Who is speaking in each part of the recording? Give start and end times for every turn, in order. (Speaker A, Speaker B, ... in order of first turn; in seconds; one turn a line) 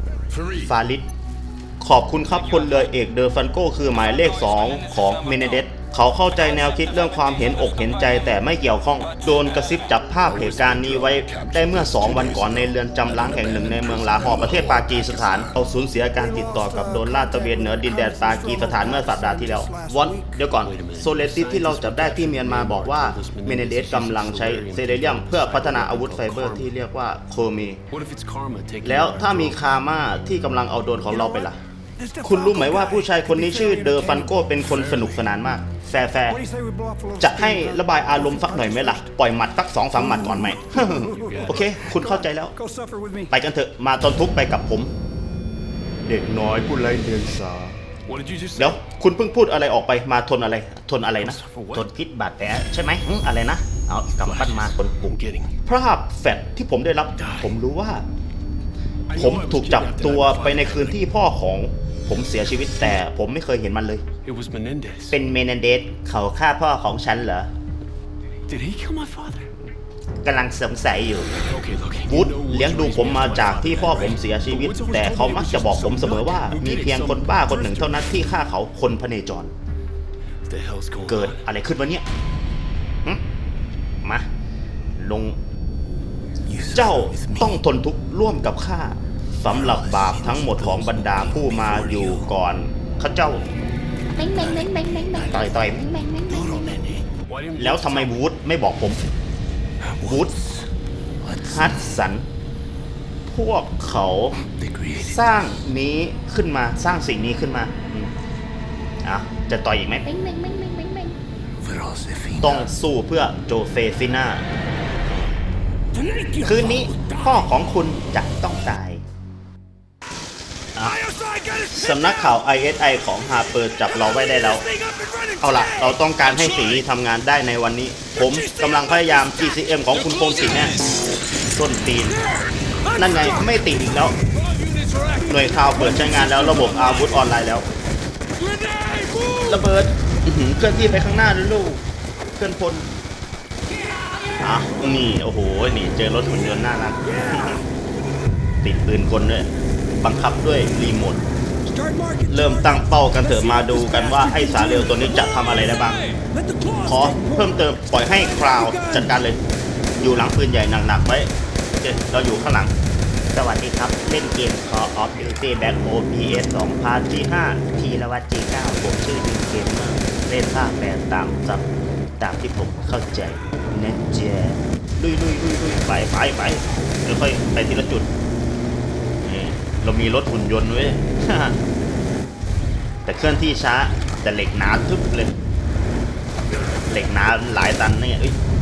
Speaker A: 0.3-0.7
Speaker B: 0.6-1.1
Speaker B: 1.8-27.8
Speaker A: 10.2-15.5
Speaker C: 13.9-14.6
Speaker C: 16.2-20.4
Speaker A: 20.6-26.7
Speaker A: 27.9-29.6
Speaker B: 28.8-31.6
Speaker C: 31.1-34.4
Speaker B: 32.2-36.4
Speaker A: 34.6-35.4
Speaker C: 36.3-39.1
Speaker B: 37.2-42.5
Speaker C: 39.9-43.3
Speaker A: 41.1-41.9
Speaker B: 43.3-44.9
Speaker B: 46.0-47.8
Speaker A: 48.0-48.8
Speaker B: 48.6-58.0
Speaker A: 51.2-51.9
Speaker A: 54.2-55.5
Speaker A: 57.1-57.6
Speaker A: 59.1-61.0
Speaker B: 59.1-64.0
Speaker A: 64.2-65.2
Speaker B: 65.1-67.5
Speaker A: 68.5-69.5
Speaker B: 70.2-71.3
Speaker A: 71.5-78.2
Speaker B: 72.1-79.5
Speaker A: 80.5-81.5
Speaker B: 81.1-82.0
Speaker B: 85.0-85.4
Speaker A: 86.4-87.6
Speaker B: 86.7-93.5
Speaker A: 89.4-92.3
Speaker D: 94.2-96.8
Speaker A: 94.3-95.5
Speaker B: 95.3-95.8
Speaker A: 96.2-98.2
Speaker B: 97.6-99.0
Speaker A: 99.9-100.6
Speaker B: 100.0-100.3
Speaker A: 101.2-102.0
Speaker B: 101.5-102.2
Speaker B: 103.3-104.4
Speaker A: 104.4-105.2
Speaker B: 105.0-108.1
Speaker B: 109.0-110.0
Speaker D: 110.0-111.2
Speaker A: 111.6-112.7
Speaker B: 112.4-114.5
Speaker B: 115.1-115.3
Speaker C: 115.9-117.6
Speaker B: 116.4-119.0
Speaker C: 120.8-122.4
Speaker B: 121.7-124.6
Speaker C: 123.8-126.7
Speaker B: 125.4-130.8
Speaker C: 128.2-129.5
Speaker A: 129.9-130.9
Speaker B: 131.5-132.2
Speaker C: 132.2-133.5
Speaker B: 132.9-134.2
Speaker C: 134.3-137.3
Speaker A: 134.5-135.2
Speaker B: 135.3-137.7
Speaker C: 138.4-139.7
Speaker A: 138.4-139.4
Speaker B: 139.4-141.8
Speaker B: 142.3-142.9
Speaker C: 143.7-144.8
Speaker B: 144.4-147.6
Speaker C: 146.3-147.7
Speaker B: 148.6-149.5
Speaker B: 150.0-151.2
Speaker C: 151.7-159.2
Speaker B: 152.3-156.0
Speaker B: 156.8-159.4
Speaker B: 160.0-162.7
Speaker B: 163.3-171.6
Speaker B: 172.2-178.1
Speaker B: 179.2-181.6
Speaker B: 183.1-185.3
Speaker B: 186.9-188.4